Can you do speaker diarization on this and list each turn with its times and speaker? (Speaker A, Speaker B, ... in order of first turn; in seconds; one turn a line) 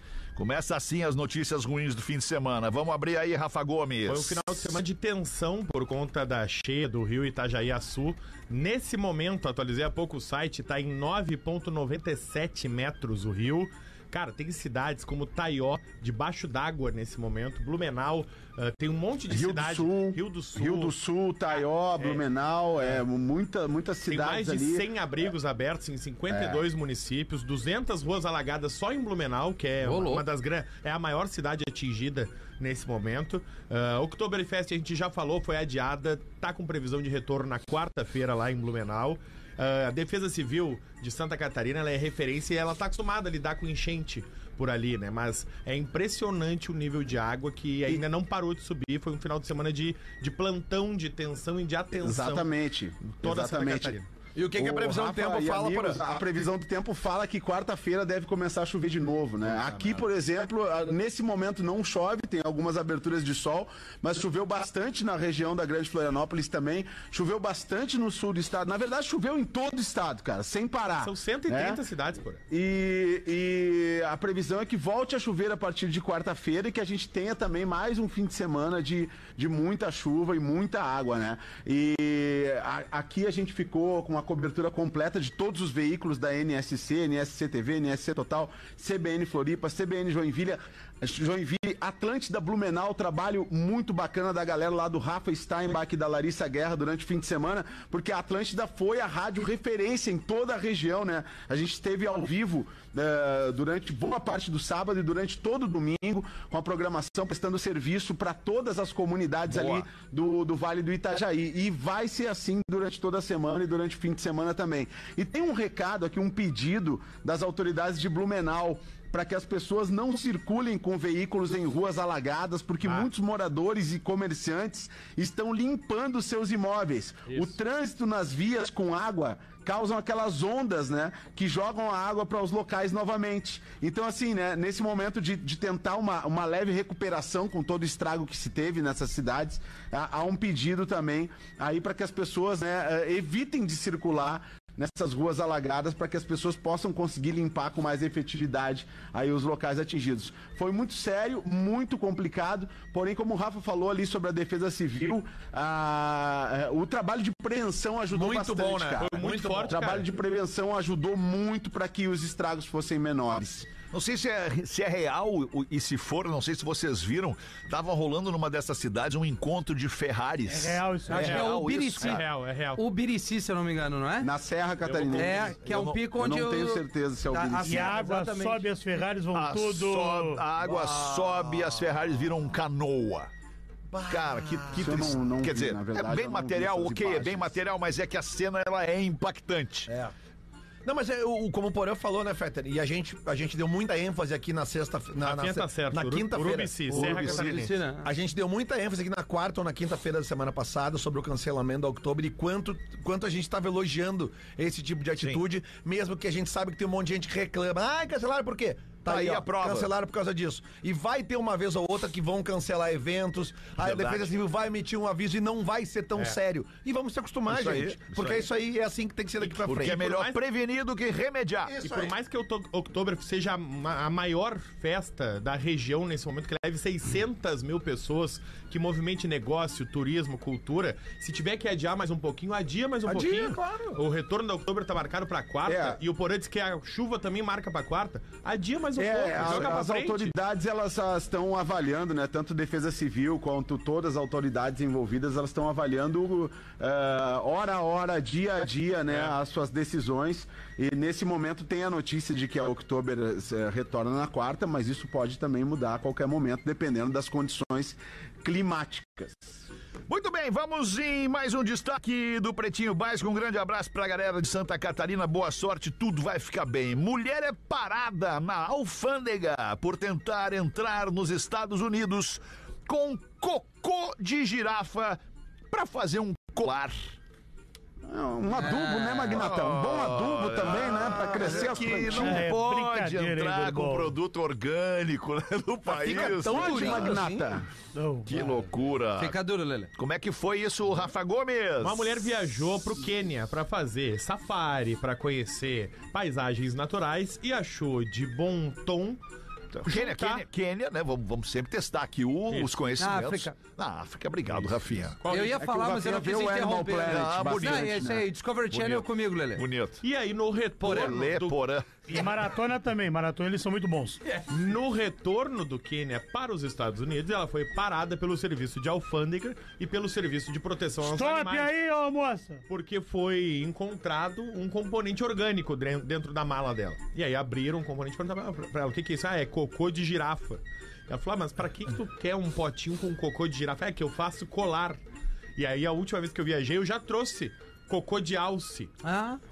Speaker A: 0.3-4.7
Speaker B: 4.1-20.9
Speaker C: 19.3-24.9
Speaker B: 21.5-22.2
Speaker B: 24.1-52.5
Speaker C: 26.3-26.6
Speaker D: 29.8-30.2
Speaker C: 52.0-54.0
Speaker B: 53.2-54.1
Speaker E: 54.3-56.0
Speaker C: 54.5-71.8
Speaker E: 59.5-60.0
Speaker B: 71.0-72.4
Speaker C: 72.5-163.7
Speaker A: 109.5-109.9
Speaker B: 127.3-127.5
Speaker E: 158.1-159.8
Speaker B: 159.0-160.1
Speaker A: 163.9-172.2
Speaker F: 170.5-171.3
Speaker D: 171.1-172.2
Speaker B: 171.1-172.8
Speaker D: 172.7-174.3
Speaker C: 174.2-177.9
Speaker B: 174.8-175.5
Speaker D: 175.2-178.6
Speaker A: 175.6-176.0
Speaker F: 177.6-180.4
Speaker A: 179.3-183.3
Speaker E: 180.6-182.1
Speaker E: 183.9-185.2
Speaker A: 184.1-189.9
Speaker C: 184.8-187.6
Speaker E: 189.9-190.1
Speaker E: 190.8-220.1
Speaker B: 195.2-197.7
Speaker D: 196.9-198.1
Speaker A: 209.1-209.9
Speaker A: 213.8-214.4
Speaker A: 217.5-218.5
Speaker B: 219.4-220.4
Speaker A: 219.5-221.8
Speaker E: 221.6-222.1
Speaker B: 221.8-240.3
Speaker E: 233.1-234.0
Speaker C: 235.6-236.0
Speaker C: 238.9-259.6
Speaker E: 239.4-239.8
Speaker A: 260.1-275.2
Speaker A: 275.7-277.1
Speaker C: 278.0-282.5
Speaker D: 278.6-279.5
Speaker A: 279.3-287.2
Speaker E: 280.8-282.1
Speaker F: 282.1-284.2
Speaker E: 285.9-287.5
Speaker C: 286.1-287.7
Speaker F: 287.9-288.5
Speaker A: 288.3-289.4
Speaker D: 289.1-289.9
Speaker A: 289.9-292.2
Speaker B: 291.8-299.2
Speaker A: 299.7-305.2
Speaker B: 299.8-300.4
Speaker B: 302.5-302.8
Speaker D: 303.0-303.5
Speaker B: 305.2-305.6
Speaker D: 305.3-309.6
Speaker C: 305.6-308.2
Speaker A: 307.0-308.1
Speaker A: 308.7-310.0
Speaker B: 310.0-311.6
Speaker A: 310.8-312.1
Speaker D: 310.8-311.1
Speaker F: 312.1-314.2
Speaker B: 314.5-321.7
Speaker F: 321.0-322.6
Speaker B: 322.7-335.0
Speaker B: 335.6-338.9
Speaker D: 339.0-339.4